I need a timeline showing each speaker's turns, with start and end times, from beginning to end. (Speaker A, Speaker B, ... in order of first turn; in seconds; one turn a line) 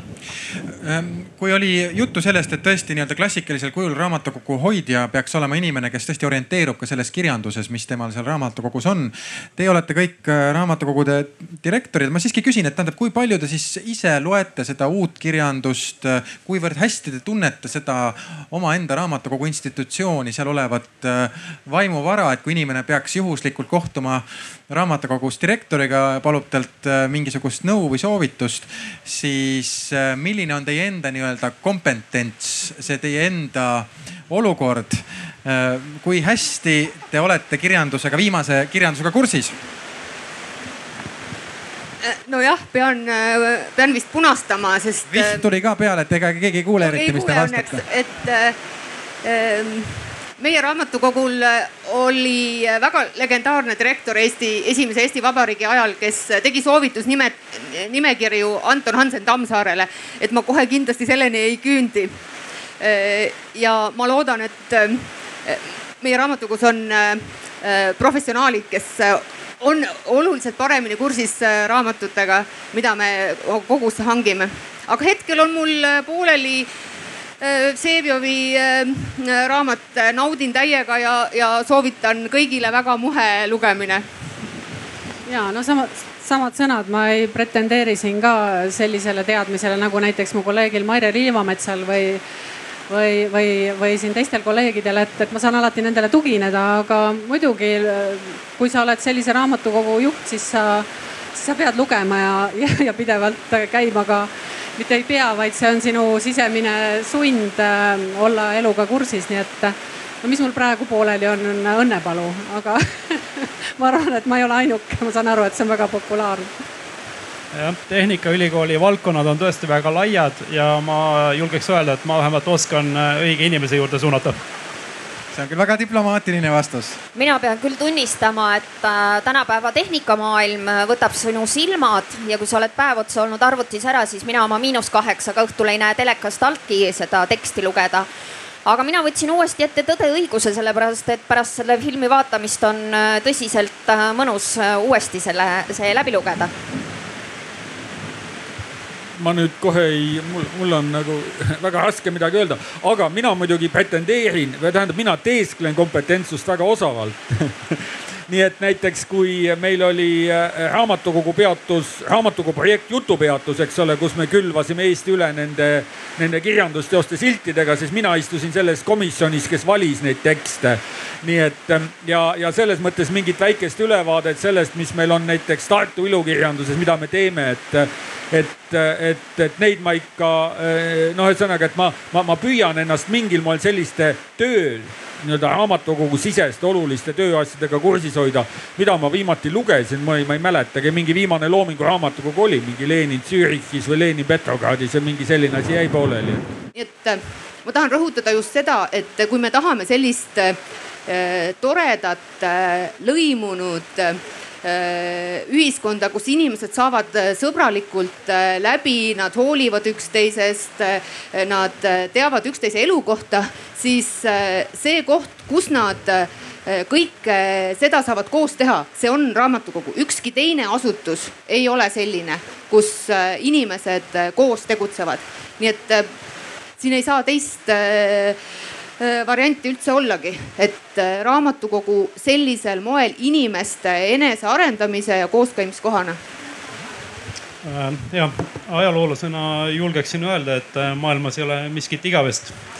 Speaker A: 0.8-39.6
Speaker B: 42.0-45.4
Speaker A: 45.1-47.8
Speaker B: 46.8-48.6
Speaker B: 49.2-62.2
Speaker B: 62.8-76.7
Speaker B: 77.4-84.0
Speaker C: 85.3-92.2
Speaker C: 92.9-116.5
Speaker D: 117.5-124.4
Speaker A: 125.3-127.0
Speaker E: 127.1-138.1
Speaker E: 138.6-146.5
Speaker F: 149.2-196.4
Speaker B: 196.7-226.1
Speaker B: 226.8-228.4
Speaker B: 229.0-236.2
Speaker D: 237.6-242.6